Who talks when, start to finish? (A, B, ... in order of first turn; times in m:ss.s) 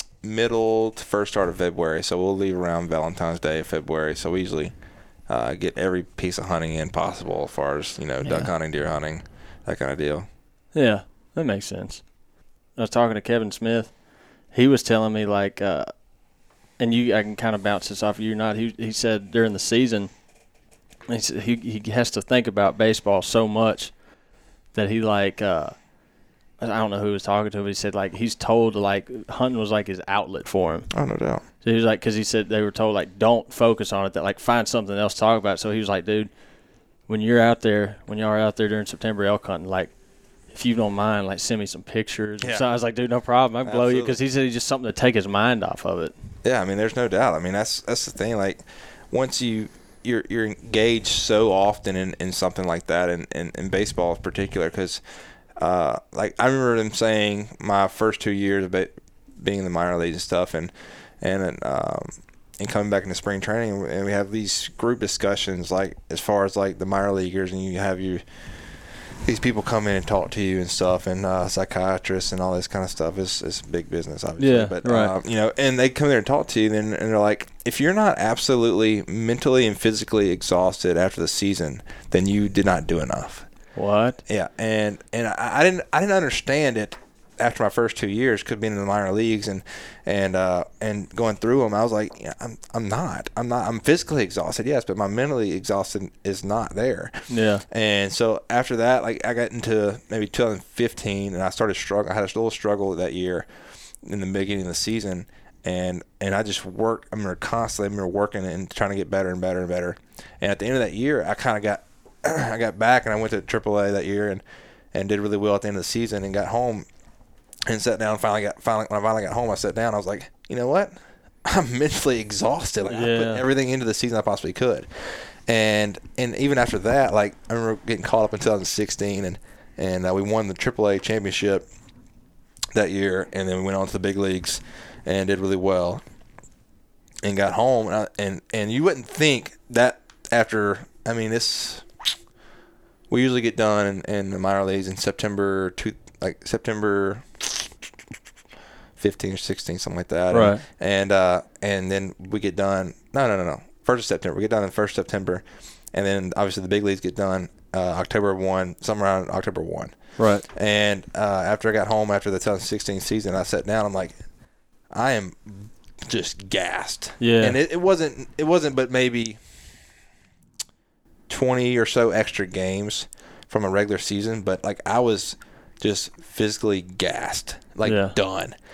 0:00.2-0:10.3 A
0:08.2-0:08.5 B
0:10.7-0:20.3 B
0:21.1-0:24.2 B
0:24.7-0:30.9 B
0:30.9-0:31.4 A
0:31.6-0:36.3 B
0:37.0-0:46.1 B
0:43.6-0:44.2 A
0:46.4-0:55.0 A
0:55.6-1:23.5 A
1:14.4-1:15.1 B
1:23.8-1:24.2 B
1:24.3-1:43.5 A
1:37.3-1:37.6 B
1:44.0-1:56.9 A
1:57.7-2:11.7 A
2:02.9-2:03.4 B
2:12.7-2:16.0 A
2:17.2-2:22.1 A
2:23.1-2:27.8 A
2:29.0-2:44.2 A
2:30.3-2:30.6 B
2:40.2-2:40.4 B
2:44.9-2:49.4 A
2:47.2-2:47.6 B
2:51.3-2:58.6 A
2:57.8-2:58.2 B